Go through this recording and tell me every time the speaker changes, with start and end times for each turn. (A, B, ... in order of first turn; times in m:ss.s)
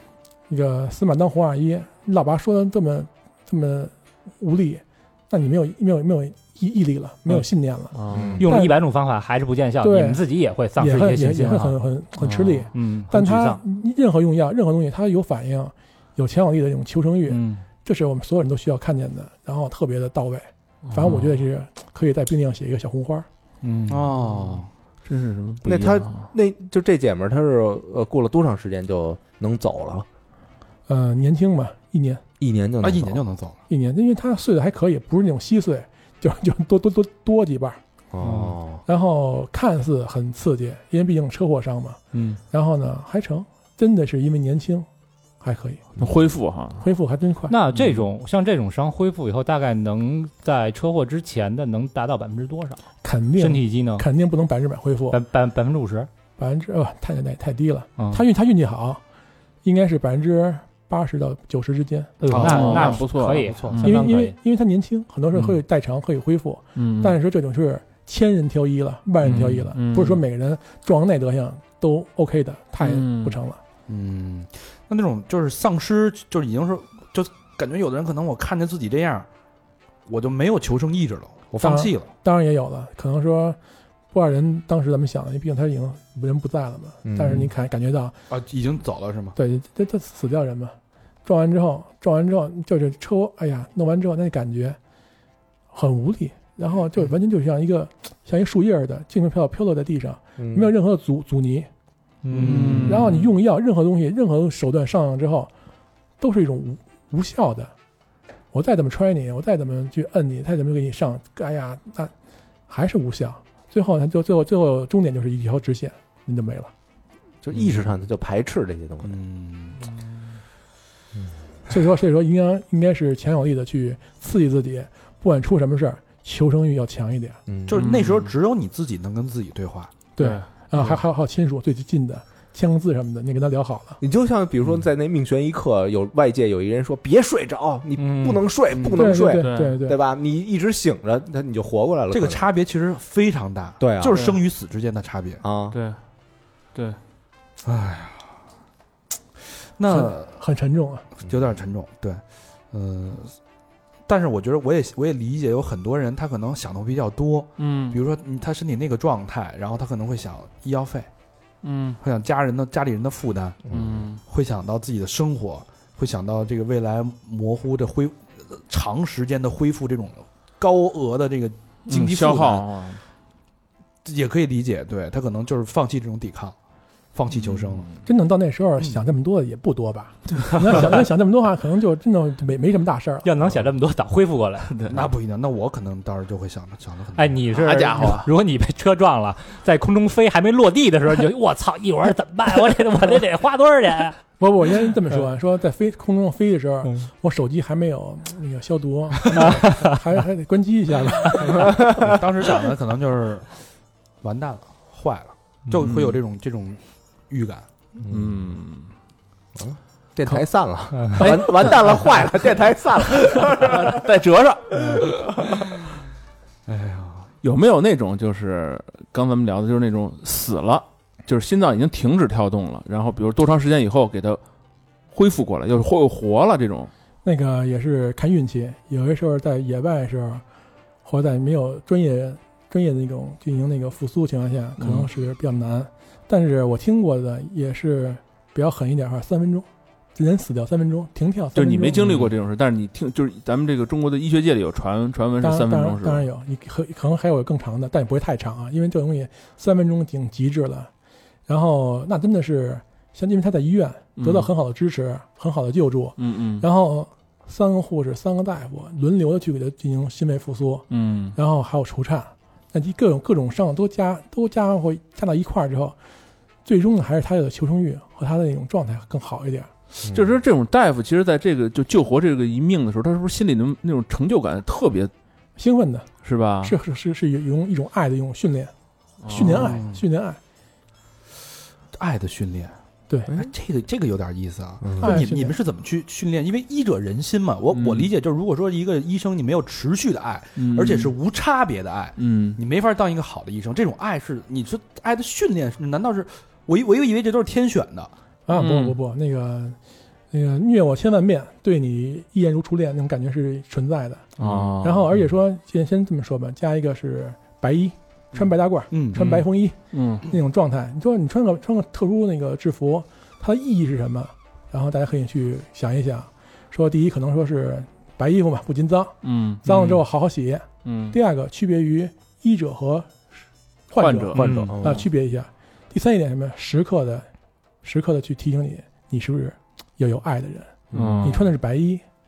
0:00.5-0:08.8 A
0:07.9-0:08.4 B
0:08.1-0:08.5 C
0:08.4-0:11.8 D
0:09.8-0:10.2 A
0:10.8-0:23.3 A
0:12.2-0:12.7 B
0:12.7-0:13.6 D
0:17.3-0:17.6 D
0:20.9-0:21.4 B
0:23.6-0:24.1 D
0:23.9-0:24.7 E
0:25.0-0:26.2 B
0:25.6-0:30.1 C
0:30.9-0:32.2 A
0:32.4-0:33.2 C
0:32.8-0:33.6 E
0:33.7-0:37.8 A
0:38.1-0:38.8 C
0:38.2-0:38.6 D
0:38.8-0:42.0 A
0:42.5-0:44.9 A
0:45.4-0:45.8 A
0:46.0-0:46.8 B
0:46.8-0:47.5 A
0:47.5-0:52.8 D
0:53.0-0:55.2 A
0:53.4-0:54.0 D
0:55.1-0:56.1 D
0:56.4-0:59.0 A
0:58.0-0:58.2 D
0:59.6-1:02.2 A
1:02.2-1:04.3 D
1:02.3-1:03.8 E
1:02.3-1:04.0 B
1:03.8-1:13.6 A
1:06.8-1:07.2 B
1:09.2-1:10.2 B
1:12.8-1:13.4 B
1:13.9-1:19.3 E
1:20.1-1:22.1 E
1:21.6-1:23.6 A
1:24.1-1:28.1 A
1:27.0-1:27.5 C
1:28.3-1:29.4 E
1:29.4-1:34.8 A
1:35.7-1:41.7 A
1:40.4-1:40.7 C
1:42.2-1:42.9 D
1:42.3-1:42.9 E
1:42.5-1:43.2 B
1:42.8-1:45.5 A
1:46.2-1:47.7 A
1:48.5-1:52.1 A
1:52.7-1:56.7 A
1:57.4-1:59.2 C
1:57.5-1:57.8 E
1:59.0-1:59.9 E
2:01.7-2:07.4 A
2:07.5-2:07.8 C
2:07.7-2:09.9 E
2:07.8-2:08.3 B
2:10.2-2:14.0 A
2:10.2-2:11.0 B
2:14.0-2:22.5 C
2:18.0-2:18.4 D
2:19.0-2:20.0 A
2:19.1-2:19.8 B
2:22.1-2:25.4 E
2:23.8-2:24.2 C
2:24.1-2:24.4 B
2:25.4-2:25.8 C
2:25.7-2:26.0 B
2:27.6-2:28.2 E
2:29.8-2:30.3 E
2:29.9-2:31.0 A
2:31.2-2:33.4 E
2:34.1-2:41.1 E
2:37.6-2:38.0 B
2:41.6-2:42.0 B
2:42.0-2:52.7 E
2:43.7-2:44.2 B
2:51.9-2:53.0 B
2:54.0-2:56.5 E
2:57.1-2:57.9 E
2:57.3-2:57.9 B
2:58.0-3:03.3 A
3:03.2-3:04.7 D
3:04.7-3:05.1 B
3:04.9-3:08.1 E
3:07.2-3:14.2 D
3:07.7-3:08.3 B
3:07.9-3:08.2 C
3:14.4-3:21.7 A
3:19.3-3:19.9 D
3:21.5-3:22.1 C
3:22.0-3:23.6 E
3:24.2-3:27.6 E
3:25.8-3:26.2 B
3:28.0-3:28.5 C
3:28.1-3:28.9 B
3:29.6-3:34.0 C
3:33.3-3:35.3 B
3:34.9-3:35.2 C
3:36.7-3:37.1 E
3:37.4-3:44.4 B
3:45.1-3:46.9 B
3:47.2-3:50.4 A
3:51.0-4:02.2 A
3:54.8-3:55.1 B
4:01.5-4:06.2 B
4:05.4-4:10.9 A
4:11.5-4:26.0 A
4:14.2-4:14.5 B
4:16.2-4:16.7 B
4:20.9-4:21.4 B
4:26.6-4:29.7 A
4:30.0-4:30.3 C
4:30.0-4:35.1 B
4:35.6-4:36.1 A
4:36.2-4:36.8 B
4:36.6-4:38.7 A
4:39.2-4:39.8 B
4:39.3-4:40.4 A
4:39.3-4:40.0 E
4:42.0-4:42.8 E
4:43.3-4:58.1 E
4:44.8-4:45.2 C
4:45.0-4:45.5 A
4:47.7-4:48.1 B
4:50.6-4:51.1 B
4:52.2-4:52.6 B
4:58.5-4:59.8 A
4:58.5-4:59.0 B
5:00.3-5:04.3 A
5:04.4-5:05.1 B
5:04.4-5:04.7 E
5:04.8-5:23.2 A
5:08.3-5:09.2 E
5:09.2-5:10.2 B
5:19.2-5:19.7 B
5:19.7-5:20.0 D
5:20.8-5:21.2 B
5:23.9-5:27.3 A
5:24.0-5:24.7 B
5:24.3-5:24.8 D
5:24.6-5:25.1 C
5:27.8-5:32.0 A
5:30.9-5:31.3 C
5:30.9-5:31.5 B